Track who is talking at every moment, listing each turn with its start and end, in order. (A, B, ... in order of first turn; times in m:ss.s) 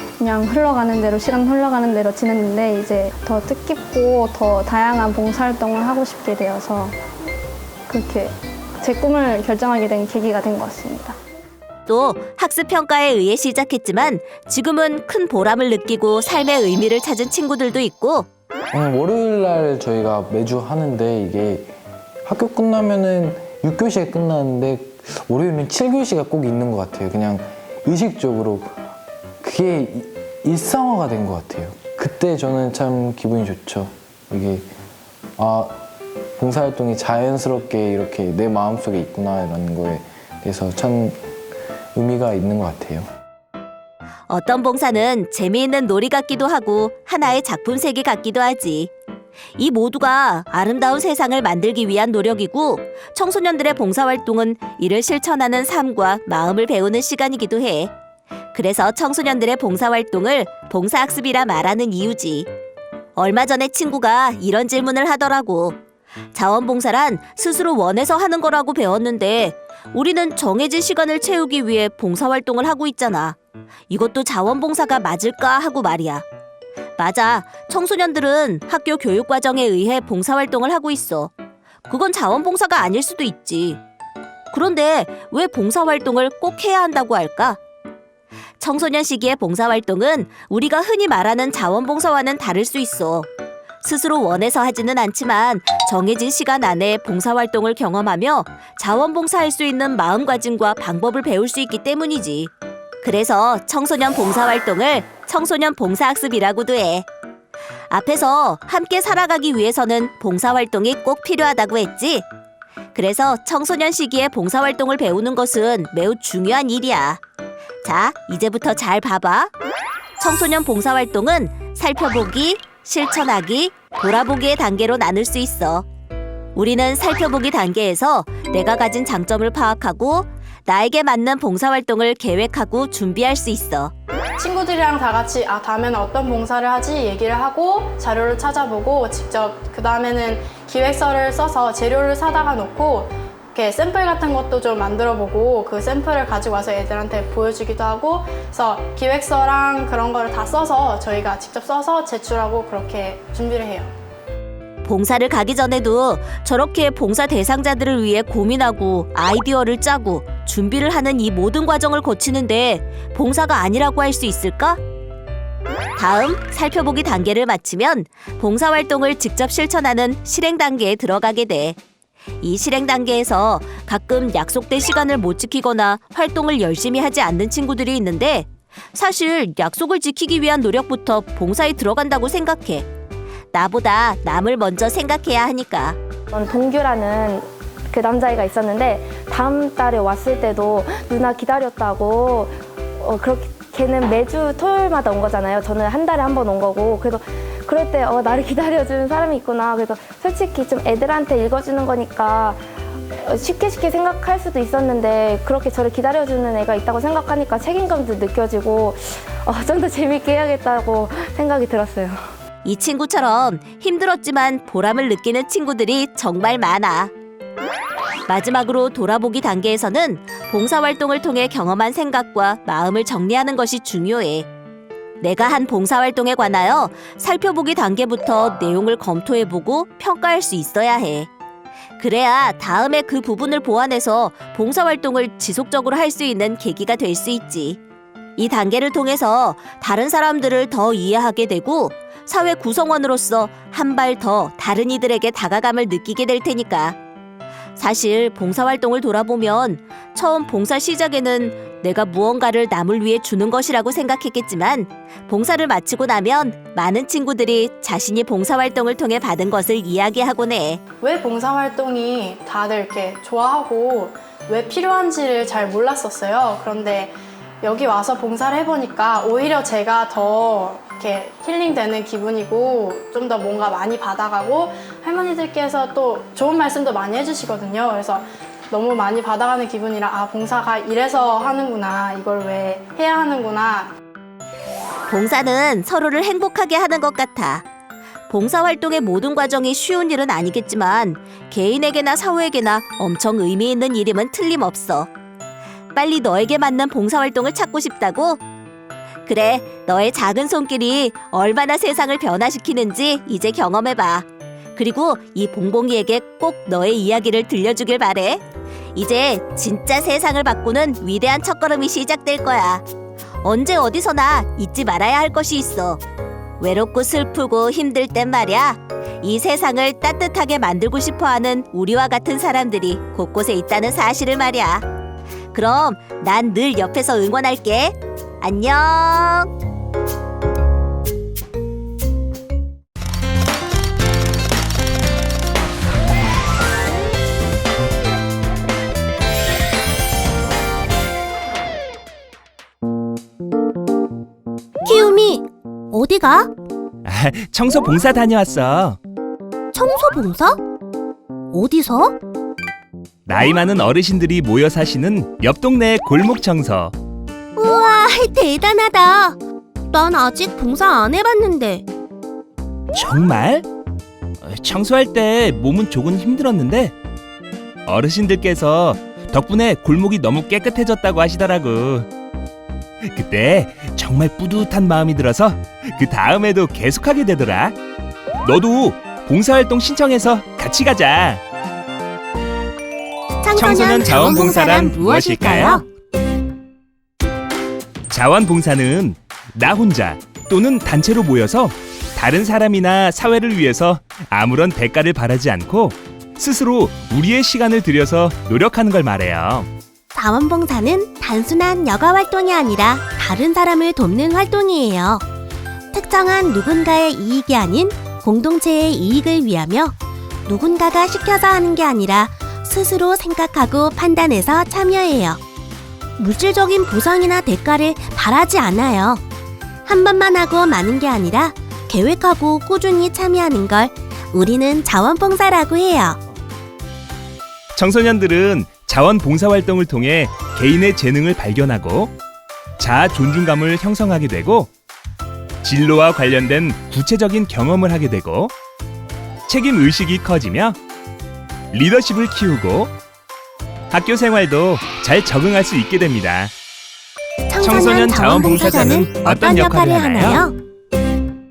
0:00.2-0:07.0 A
0:07.9-0:11.1 A
0:11.9-0:18.3 B
0:18.7-0:21.7 C
0:22.2-0:28.8 C
0:29.4-0:34.7 C
0:35.4-0:35.8 C
0:36.4-0:41.3 C
0:41.9-0:43.1 C
0:44.3-0:48.9 B
0:49.6-0:57.9 B
0:58.5-1:02.5 B
1:03.2-1:05.8 B
1:06.3-1:13.4 B
1:13.9-1:16.2 B
1:17.0-1:21.3 B
1:21.9-1:23.8 B
1:24.5-1:27.6 B
1:28.6-1:33.3 B
1:33.8-1:42.5 B
1:43.0-1:47.0 B
1:47.9-1:52.2 B
1:52.9-1:57.2 B
1:57.8-1:59.5 B
2:00.2-2:05.8 B
2:06.5-2:13.9 B
2:14.4-2:33.9 D
2:34.8-2:44.8 B
2:46.0-2:51.8 B
2:52.4-3:02.8 B
3:03.5-3:06.0 B
3:06.3-3:22.6 E
3:23.1-3:32.2 E
3:32.6-3:37.1 B
3:38.3-3:44.5 B
3:45.2-3:51.3 B
3:52.0-3:57.8 B
3:58.4-4:07.0 B
4:07.8-4:20.8 B
4:21.0-4:43.9 D
4:45.1-4:47.6 B
4:48.3-4:55.1 B
4:55.9-4:58.4 B
4:59.2-5:04.2 B
5:04.8-5:08.4 B
5:08.9-5:12.8 B
5:13.4-5:16.0 B
5:16.6-5:24.8 B
5:25.5-5:29.5 B
5:44.8-5:46.5 F
5:47.0-5:49.0 G
5:49.7-5:50.6 F
5:51.5-5:52.2 F
5:53.3-5:56.9 G
5:57.6-5:59.4 F
5:59.9-6:01.8 F
6:02.9-6:03.6 G
6:04.4-6:06.9 G
6:07.8-6:12.1 G
6:13.0-6:17.8 G
6:18.4-6:21.4 G
6:23.4-6:25.8 F
6:23.6-6:25.8 G
6:28.1-6:39.7 G
6:40.1-6:45.2 F
6:45.9-6:49.9 F
6:50.4-6:55.4 F
6:56.2-6:59.2 F
6:59.8-7:06.2 F
7:07.7-7:12.1 G
7:12.8-7:14.7 G
7:15.6-7:18.5 G
7:19.5-7:20.8 G
7:21.7-7:22.9 G
7:23.9-7:26.5 G
7:27.5-7:30.5 F
7:27.6-7:30.5 G